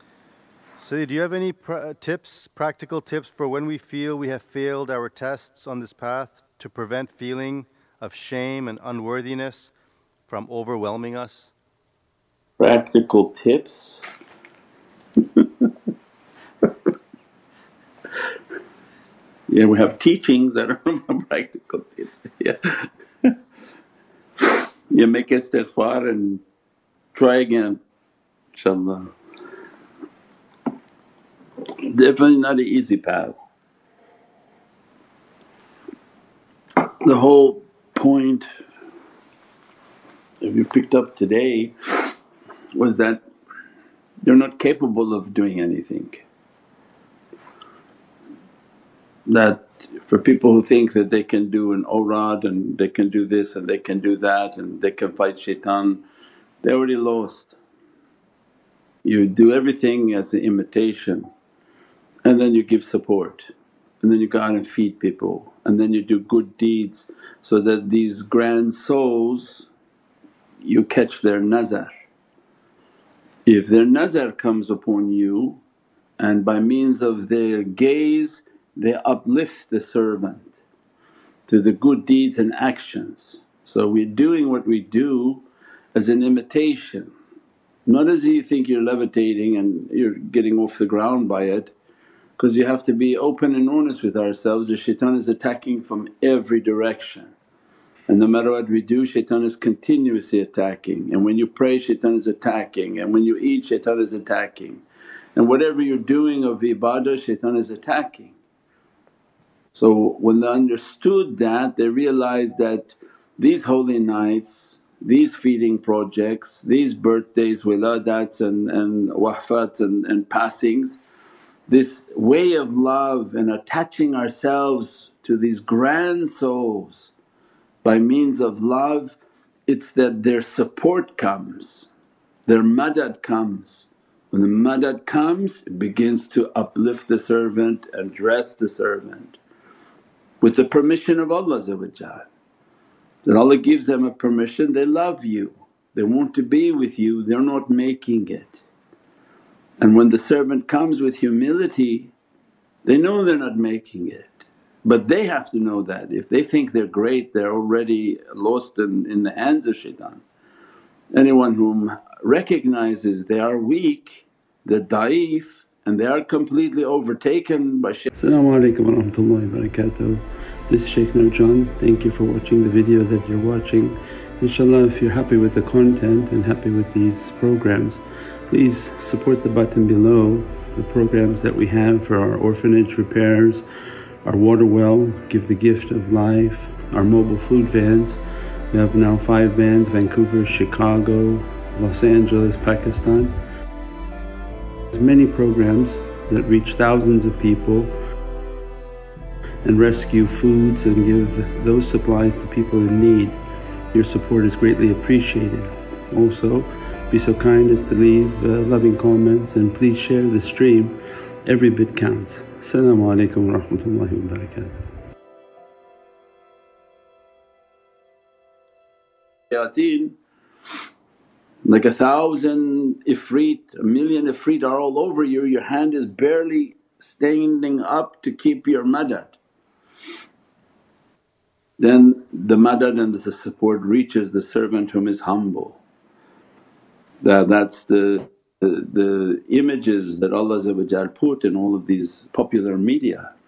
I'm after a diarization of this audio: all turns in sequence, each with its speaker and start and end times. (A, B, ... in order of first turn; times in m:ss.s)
0:00.8-0:09.7 A
0:10.3-0:11.5 A
0:12.6-0:14.0 B
0:15.4-0:15.7 B
0:19.5-0:23.3 B
0:24.4-0:26.4 B
0:27.1-0:27.8 B
0:28.5-0:29.1 B
0:31.8-0:33.3 B
0:36.8-0:38.5 B
0:40.4-0:42.1 B
0:42.7-0:43.2 B
0:44.2-0:46.3 B
0:49.3-0:56.0 B
0:56.6-0:57.6 B
0:59.0-1:01.3 B
1:02.2-1:03.5 B
1:04.0-1:09.7 B
1:10.6-1:11.9 B
1:13.5-1:15.6 B
1:16.2-1:20.6 B
1:21.5-1:27.1 B
1:27.9-1:31.7 B
1:32.4-1:37.3 B
1:38.1-1:44.8 B
1:45.4-1:48.3 B
1:49.7-2:01.0 B
2:01.7-2:07.1 B
2:07.8-2:11.9 B
2:12.5-2:19.4 B
2:20.4-2:22.3 B
2:23.2-2:28.6 B
2:29.8-2:32.1 B
2:32.8-2:40.2 B
2:41.1-2:49.8 B
2:49.4-2:50.2 C
2:50.7-2:58.0 C
2:51.5-2:52.0 B
2:55.4-2:56.8 B
2:58.5-3:03.6 C
3:04.4-3:08.2 C
3:05.3-3:05.6 B
3:08.7-3:13.1 C
3:12.4-3:12.8 B
3:15.0-3:15.5 B
3:15.6-3:17.7 C
3:16.8-3:17.8 B
3:19.7-3:23.3 C
3:19.7-3:20.2 B
3:24.0-3:25.6 C
3:26.2-3:30.9 C
3:27.2-3:27.6 B
3:31.5-3:34.5 C
3:39.5-3:40.2 B
3:41.6-3:49.4 B
3:51.8-3:55.8 B
3:57.2-4:03.3 B